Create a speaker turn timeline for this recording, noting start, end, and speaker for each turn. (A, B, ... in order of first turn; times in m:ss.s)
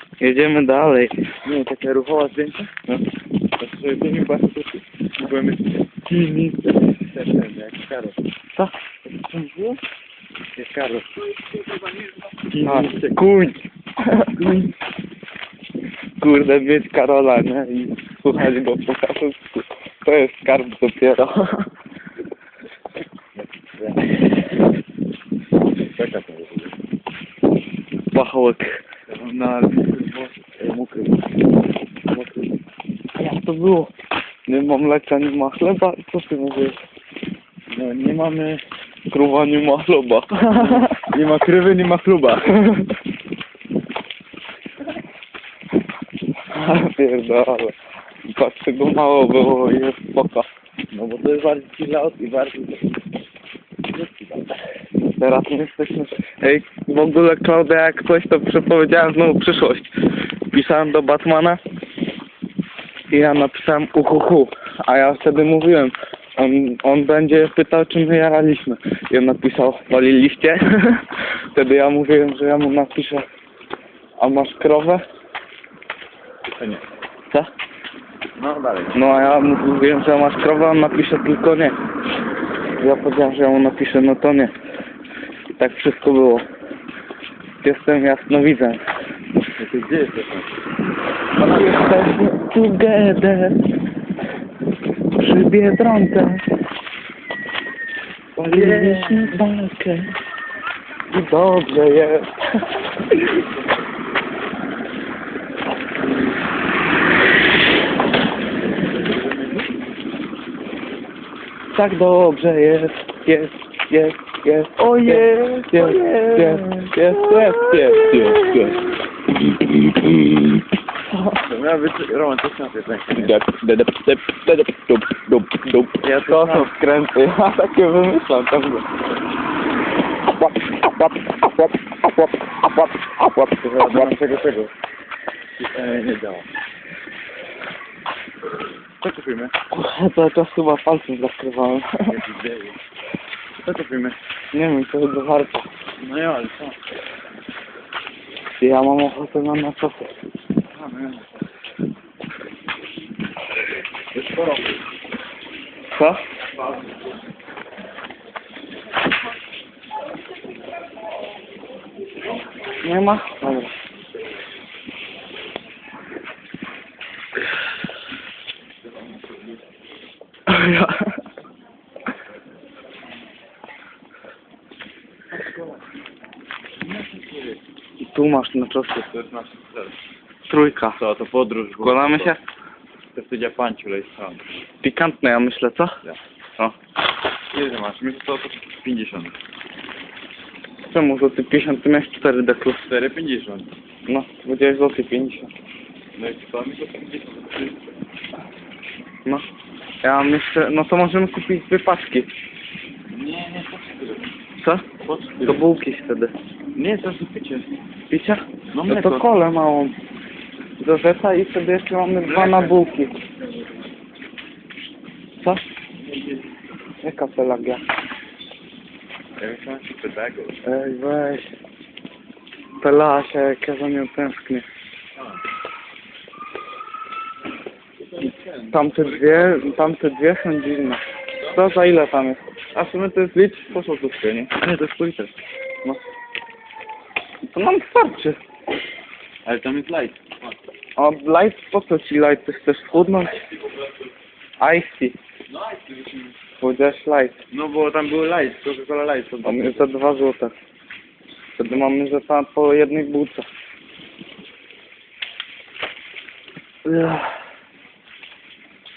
0:00.2-0:01.2 A
0:01.4-0:02.9 B
0:03.6-0:08.2 B
0:09.0-0:09.8 B
0:10.6-0:13.2 B
0:12.6-0:14.4 A
0:14.4-0:14.7 B
0:16.2-0:21.7 A
0:23.4-0:24.2 B
0:26.0-0:26.7 B
0:28.1-0:28.8 A
0:29.1-0:31.3 B
0:32.1-0:32.5 A
0:33.2-0:33.9 A
0:34.5-0:36.8 A
0:37.7-0:38.6 B
0:39.1-0:41.0 A
0:40.5-0:42.6 B
0:42.5-0:42.9 A
0:46.5-0:47.8 A
0:48.3-0:50.5 A
0:50.9-0:53.0 B
0:53.9-0:54.6 B
0:55.0-1:01.6 A
1:03.1-1:13.2 A
1:14.2-1:15.0 A
1:16.5-1:16.8 B
1:18.4-1:19.1 B
1:18.9-1:21.8 A
1:22.8-1:24.5 A
1:25.5-1:26.4 A
1:27.6-1:28.8 A
1:29.6-1:30.5 B
1:31.4-1:33.7 A
1:31.4-1:31.8 B
1:35.2-1:36.4 A
1:38.4-1:40.1 A
1:38.4-1:39.4 B
1:41.1-1:43.4 A
1:48.8-1:49.7 B
1:51.7-1:58.9 A
1:54.8-1:58.8 B
1:59.8-2:00.4 A
2:01.1-2:01.4 A
2:01.4-2:03.4 B
2:03.2-2:08.9 A
2:06.0-2:06.7 B
2:10.4-2:14.2 A
2:13.6-2:14.7 B
2:15.6-2:16.5 B
2:19.0-2:19.6 B
2:19.7-2:22.2 A
2:22.1-2:22.8 B
2:23.6-2:24.2 B
2:24.5-2:25.7 A
2:26.0-2:26.8 B
2:28.6-2:30.2 A
2:30.7-2:31.3 B
2:34.1-2:34.8 B
2:35.9-2:36.2 A
2:42.8-2:43.8 A
2:48.9-2:49.6 B
2:50.5-2:51.2 A
2:55.4-2:55.6 B
2:56.8-2:57.6 B
2:58.0-2:59.1 A
2:59.0-3:00.0 B
3:00.5-3:01.0 A
3:01.0-3:02.3 B
3:01.8-3:02.4 A
3:03.2-3:04.4 B
3:04.8-3:06.0 A
3:07.5-3:09.3 B
3:10.9-3:12.8 A
3:12.8-3:13.7 B
3:14.1-3:15.5 A
3:16.2-3:17.8 B
3:20.0-3:22.3 A
3:23.1-3:24.3 B
3:24.6-3:24.9 A
3:25.0-3:25.6 B
3:25.4-3:26.3 A
3:26.8-3:27.7 B
3:28.1-3:30.0 A
3:28.7-3:29.2 B
3:30.8-3:33.2 A
3:32.2-3:32.8 B
3:36.0-3:36.5 B
3:37.0-3:37.8 A
3:39.4-3:40.6 B
3:40.6-3:41.5 A
3:42.8-3:44.7 A
3:45.2-3:45.4 B
3:48.0-3:49.7 B
3:48.7-3:54.5 A
3:54.5-3:55.3 B
3:57.4-3:58.4 A
3:59.4-4:00.6 B
4:01.0-4:03.5 A
4:03.5-4:03.9 B
4:04.6-4:05.2 A
4:05.5-4:06.4 B
4:06.6-4:07.4 A
4:07.5-4:09.9 B
4:09.4-4:10.5 A
4:11.6-4:13.5 A
4:16.8-4:17.4 A